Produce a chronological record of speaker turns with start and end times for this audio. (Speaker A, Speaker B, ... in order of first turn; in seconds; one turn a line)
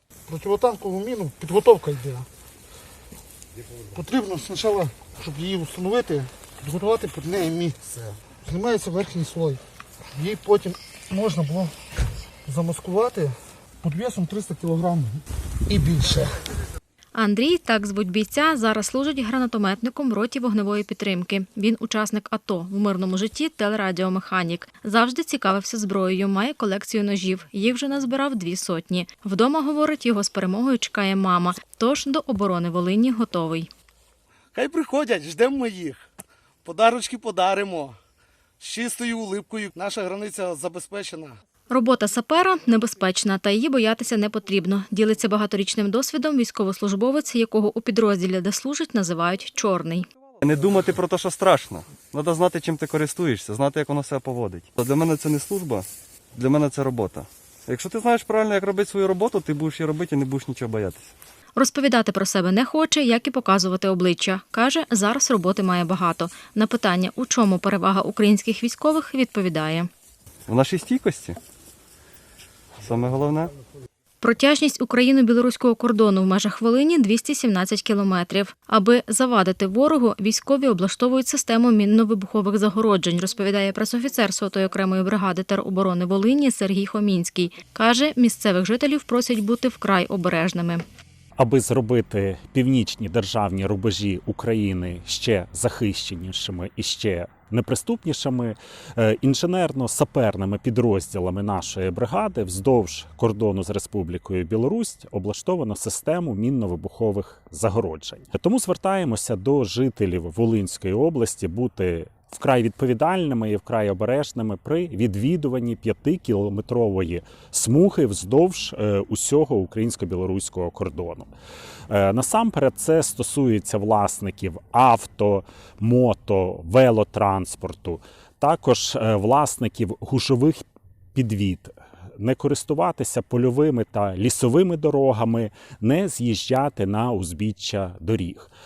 Speaker A: 0.3-2.3
Speaker A: 3.9-9.6
Speaker A: 10.2-11.8
Speaker A: 12.4-16.4
Speaker B: 17.1-33.7
Speaker C: 34.5-36.0
Speaker A: 34.6-35.6
Speaker C: 36.6-38.0
Speaker C: 38.6-41.3
Speaker A: 39.8-41.3
Speaker B: 41.7-50.1
Speaker D: 50.4-61.1
Speaker B: 61.6-69.9
Speaker D: 70.5-71.4
Speaker D: 72.8-73.5
Speaker B: 74.2-90.8
Speaker E: 91.4-121.3
Speaker E: 121.9-130.6
Speaker E: 131.2-138.5